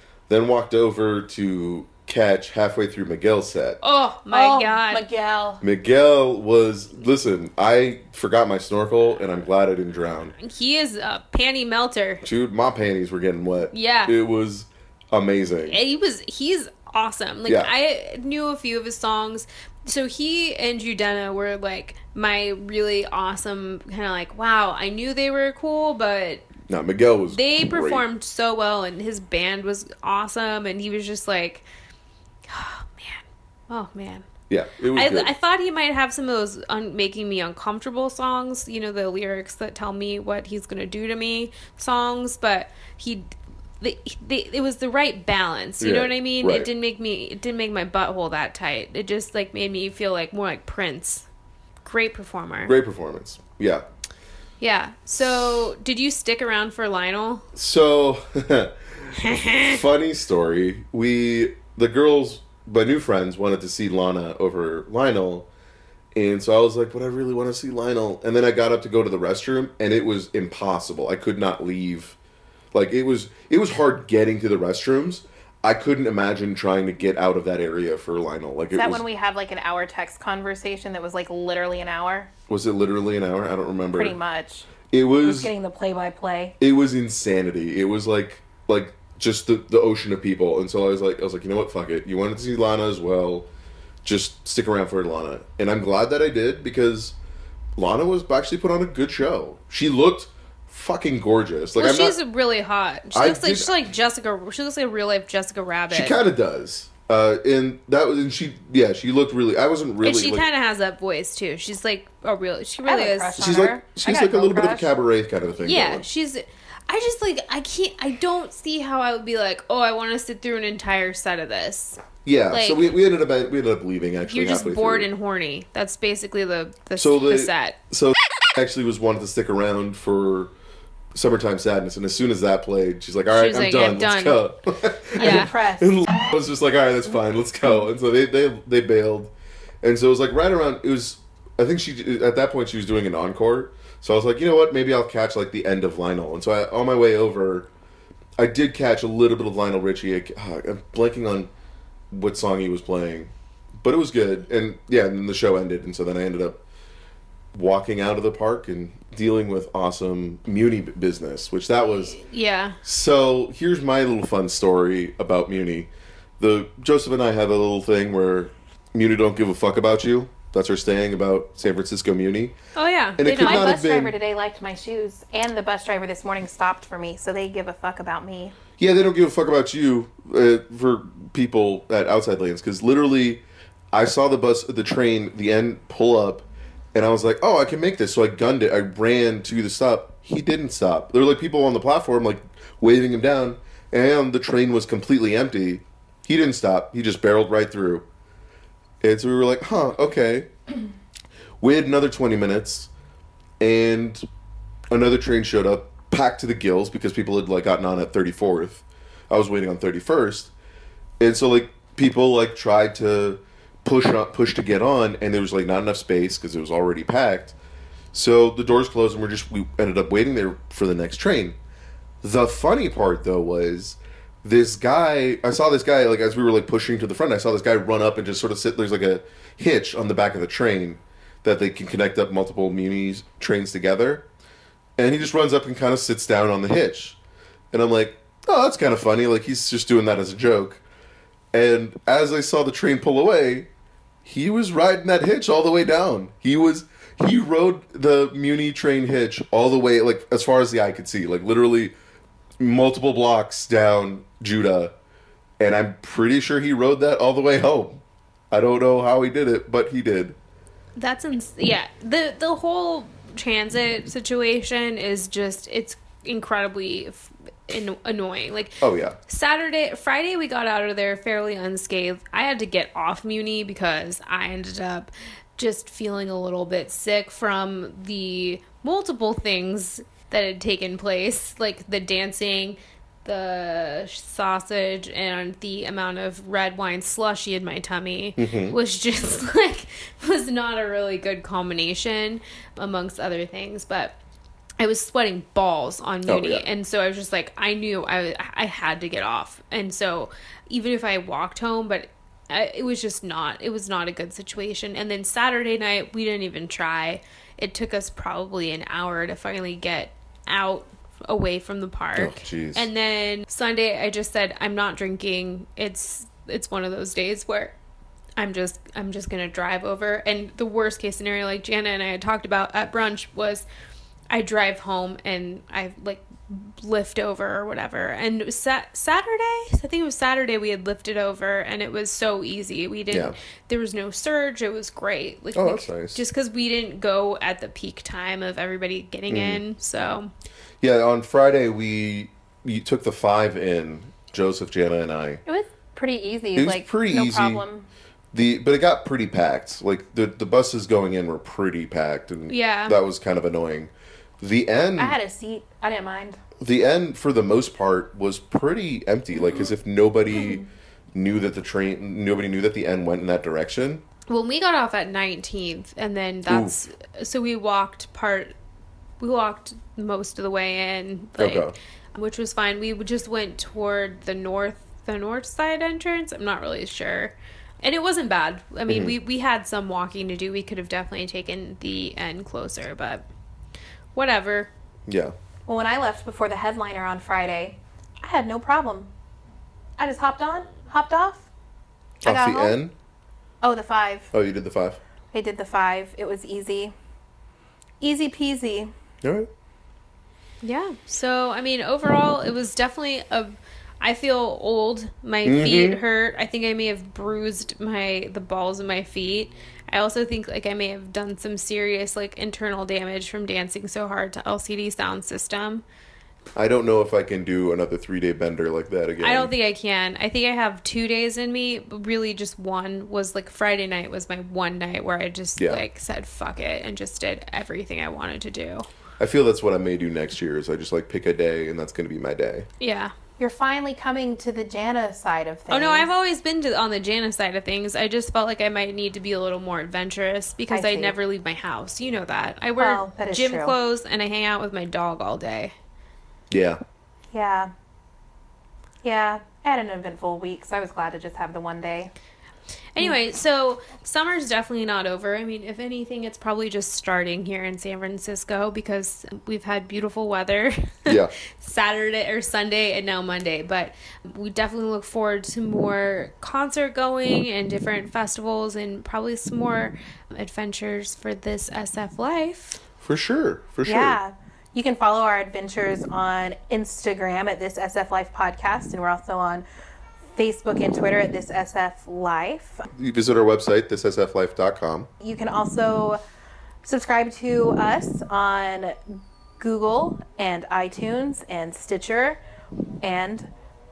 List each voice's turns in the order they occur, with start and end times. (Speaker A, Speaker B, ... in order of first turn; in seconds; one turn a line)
Speaker A: 0.3-3.8
Speaker B: 3.8-5.0
Speaker C: 4.3-5.6
Speaker A: 5.6-10.3
Speaker B: 10.4-12.2
Speaker A: 12.2-15.8
Speaker B: 13.7-14.2
Speaker B: 15.7-26.5
Speaker A: 17.4-17.7
Speaker A: 26.7-28.0
Speaker B: 27.3-31.6
Speaker B: 32.5-34.3
Speaker A: 34.5-35.3
Speaker B: 34.9-43.3
Speaker B: 43.8-51.2
Speaker A: 45.8-46.7
Speaker B: 51.8-52.7
Speaker A: 52.6-53.8
Speaker B: 54.6-57.5
Speaker A: 55.2-55.7
Speaker A: 57.5-65.5
Speaker B: 59.1-59.8
Speaker A: 66.1-72.2
Speaker A: 72.7-79.0
Speaker C: 78.7-82.3
Speaker A: 82.5-84.2
Speaker C: 84.0-84.7
Speaker A: 84.9-85.5
Speaker C: 85.2-86.5
Speaker A: 86.6-93.5
Speaker A: 94.0-97.2
Speaker A: 97.8-102.2
Speaker B: 101.8-106.2
Speaker A: 103.1-103.7
Speaker A: 105.9-110.4
Speaker B: 110.0-113.5
Speaker C: 112.8-114.9
Speaker A: 113.4-116.0
Speaker B: 115.6-122.9
Speaker A: 122.2-125.1
Speaker B: 124.3-127.8
Speaker A: 127.0-130.5
Speaker A: 131.1-147.7
Speaker B: 133.3-134.4
Speaker B: 135.2-135.5
Speaker C: 135.2-136.1
Speaker A: 148.4-151.5
Speaker A: 152.1-156.6
Speaker A: 157.5-162.2
Speaker B: 162.1-162.8
Speaker A: 162.8-172.5
Speaker B: 172.7-173.7
Speaker A: 173.2-174.1
Speaker C: 173.3-178.5
Speaker A: 178.8-198.0
Speaker A: 199.0-200.5
Speaker A: 201.6-202.9
Speaker A: 203.6-204.2
Speaker A: 204.9-210.5
Speaker A: 211.2-217.5
Speaker A: 218.1-221.6
Speaker A: 222.2-234.2
Speaker A: 235.0-237.2
Speaker A: 237.7-240.8
Speaker A: 241.5-243.7
Speaker A: 244.2-251.9
Speaker A: 252.6-254.9
Speaker A: 255.6-260.4
Speaker B: 261.0-294.1
Speaker A: 268.8-269.1
Speaker A: 288.4-288.8
Speaker B: 294.8-317.7
Speaker A: 296.3-296.6
Speaker A: 312.1-312.9
Speaker B: 318.4-323.6
Speaker B: 324.3-340.3
Speaker A: 335.5-336.2
Speaker A: 339.3-339.6
Speaker A: 340.8-345.4
Speaker C: 345.4-347.9
Speaker A: 346.6-347.6
Speaker A: 348.3-355.1
Speaker B: 352.5-353.0
Speaker C: 355.0-356.4
Speaker A: 356.6-364.0
Speaker B: 364.3-368.5
Speaker A: 366.4-366.8
Speaker B: 369.2-383.2
Speaker A: 371.4-371.7
Speaker A: 378.9-379.1
Speaker B: 384.1-384.7
Speaker A: 385.1-385.3
Speaker C: 385.7-389.1
Speaker C: 390.0-391.5
Speaker A: 392.2-392.9
Speaker C: 392.2-392.8
Speaker C: 393.6-394.3
Speaker A: 394.3-395.0
Speaker C: 395.3-396.9
Speaker C: 398.0-398.9
Speaker A: 399.2-399.5
Speaker B: 400.6-415.8
Speaker A: 405.4-406.0
Speaker A: 416.5-419.5
Speaker B: 419.2-428.9
Speaker A: 425.6-425.8
Speaker A: 429.2-432.6
Speaker B: 432.8-433.1
Speaker C: 433.4-436.1
Speaker B: 435.7-445.7
Speaker C: 440.7-441.1
Speaker C: 442.8-443.7
Speaker A: 446.5-446.8
Speaker C: 447.3-447.7
Speaker C: 449.0-452.1
Speaker B: 452.9-472.8
Speaker A: 461.1-461.3
Speaker A: 473.0-474.2
Speaker C: 473.9-479.6
Speaker C: 480.4-482.8
Speaker A: 482.9-485.1
Speaker C: 485.2-486.2
Speaker C: 486.8-492.4
Speaker C: 493.0-493.5